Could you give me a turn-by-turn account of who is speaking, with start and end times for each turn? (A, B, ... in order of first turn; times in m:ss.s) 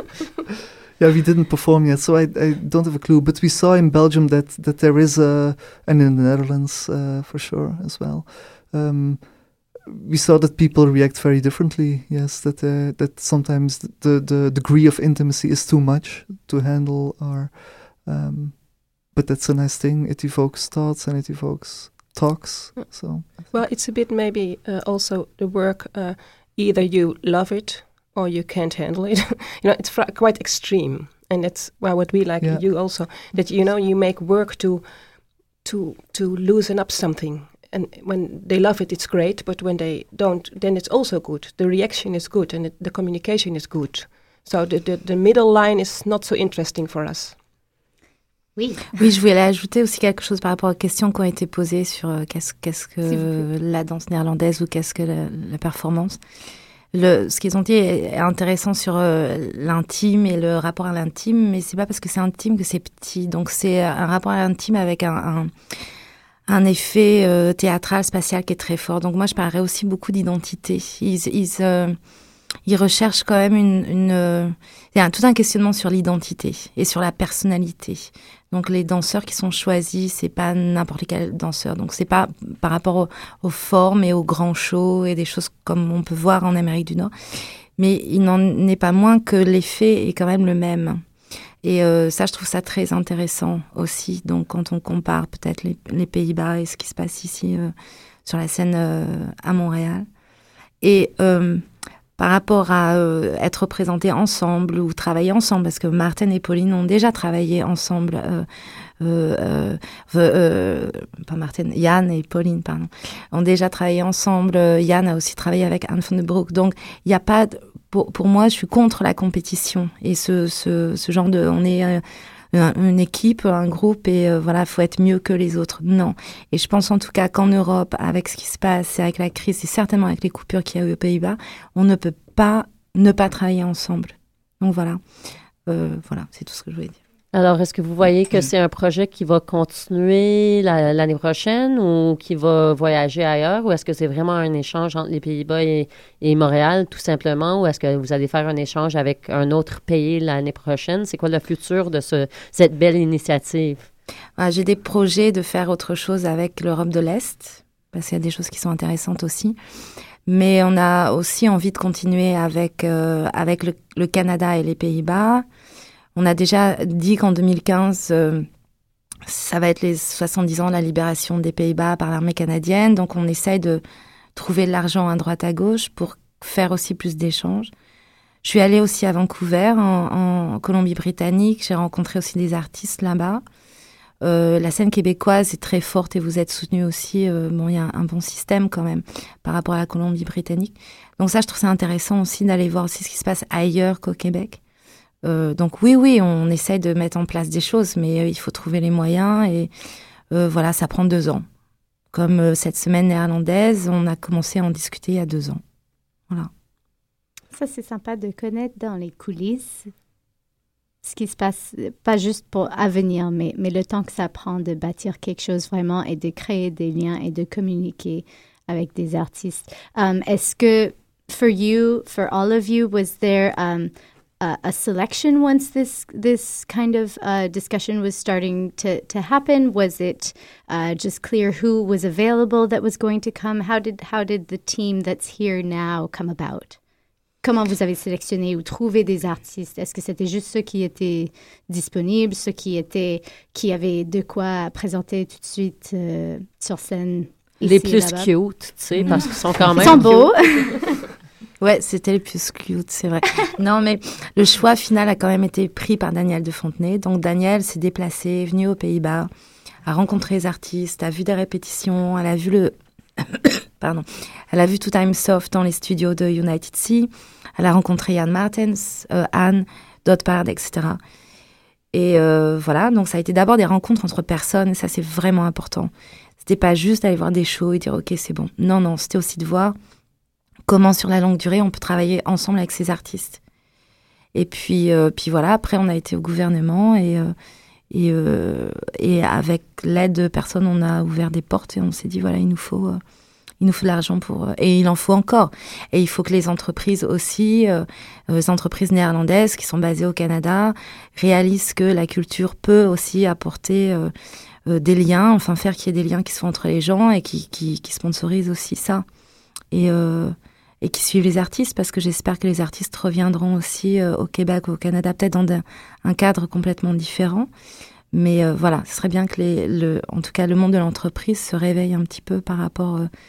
0:01.0-0:23.5 A
0:22.7-0:47.4 B
0:32.4-0:33.4 A
0:48.6-0:48.9 C
0:49.0-0:56.2 D
0:53.1-0:53.3 C
0:56.9-1:05.5 D
1:06.5-1:12.0 D
1:12.6-1:27.1 D
1:27.8-1:31.0 D
1:31.6-1:37.7 D
1:38.2-1:40.1 D
1:40.8-1:41.6 D
1:42.2-1:48.5 D
1:49.0-2:15.0 D
2:15.7-2:17.0 D
2:17.3-2:33.9 E
2:34.4-2:39.6 D
2:40.3-2:45.4 D
2:46.2-2:48.5 D
2:49.3-2:53.8 D
2:54.4-2:57.7 D
2:58.4-3:03.4 D
3:04.2-3:14.6 D
3:15.2-3:19.7 D
3:20.3-3:21.4 D
3:22.1-3:25.6 D
3:27.5-3:29.9 C
3:31.0-3:56.8 C
3:57.4-4:08.3 C
4:07.6-4:10.2 E
4:09.0-4:09.8 D
4:09.8-4:10.8 C
4:11.6-4:19.3 D
4:19.9-4:31.0 D
4:31.9-4:39.8 D
4:40.7-4:43.4 D
4:44.4-4:47.3 D
4:47.9-4:53.0 D
4:53.6-5:04.1 D
5:04.7-5:09.1 D
5:09.7-5:17.5 D
5:18.1-5:23.1 D